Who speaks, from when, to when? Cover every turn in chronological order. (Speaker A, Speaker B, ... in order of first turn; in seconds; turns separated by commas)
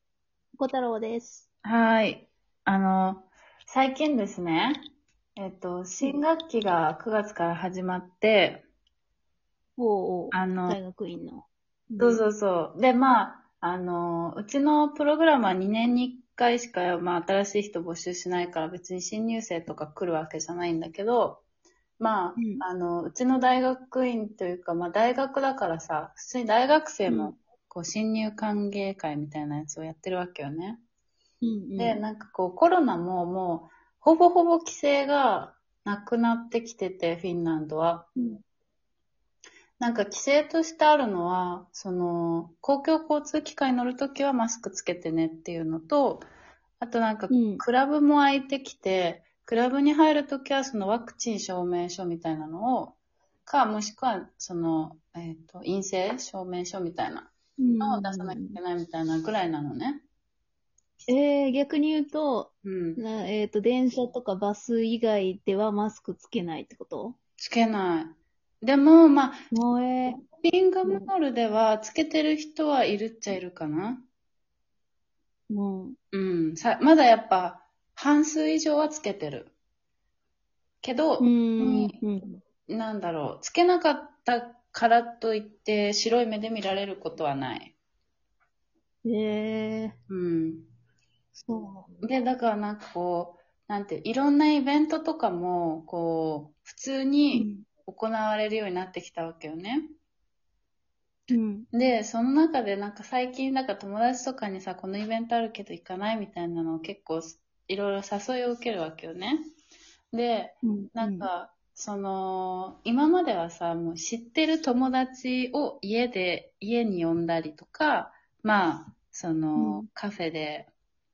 Speaker A: 0.5-1.5, Speaker B: 1.6-4.8, Speaker B: 5.3-8.6, Speaker A: 9.8-12.2, Speaker B: 10.3-10.8, Speaker B: 12.0-21.4, Speaker B: 22.0-30.8, Speaker A: 22.4-22.6, Speaker A: 27.1-27.3, Speaker A: 31.4-32.0, Speaker B: 31.8-38.1, Speaker A: 38.2-38.4, Speaker B: 39.8-46.3, Speaker B: 46.8-57.3, Speaker A: 47.3-47.6, Speaker A: 57.6-58.6, Speaker B: 57.8-60.0, Speaker A: 61.1-67.2, Speaker B: 62.6-63.0, Speaker B: 67.4-69.4, Speaker A: 69.5-70.2, Speaker B: 70.4-74.0, Speaker A: 70.8-71.1, Speaker A: 75.5-76.0, Speaker B: 76.1-79.5, Speaker B: 80.8-82.0, Speaker A: 81.2-82.4, Speaker B: 82.7-87.8, Speaker A: 89.0-90.0, Speaker B: 90.1-90.7, Speaker A: 91.5-92.0, Speaker B: 92.0-99.9, Speaker A: 97.3-97.7, Speaker A: 101.3-101.7, Speaker B: 101.7-109.4, Speaker B: 110.1-120.7, Speaker A: 110.6-111.3, Speaker A: 119.6-119.9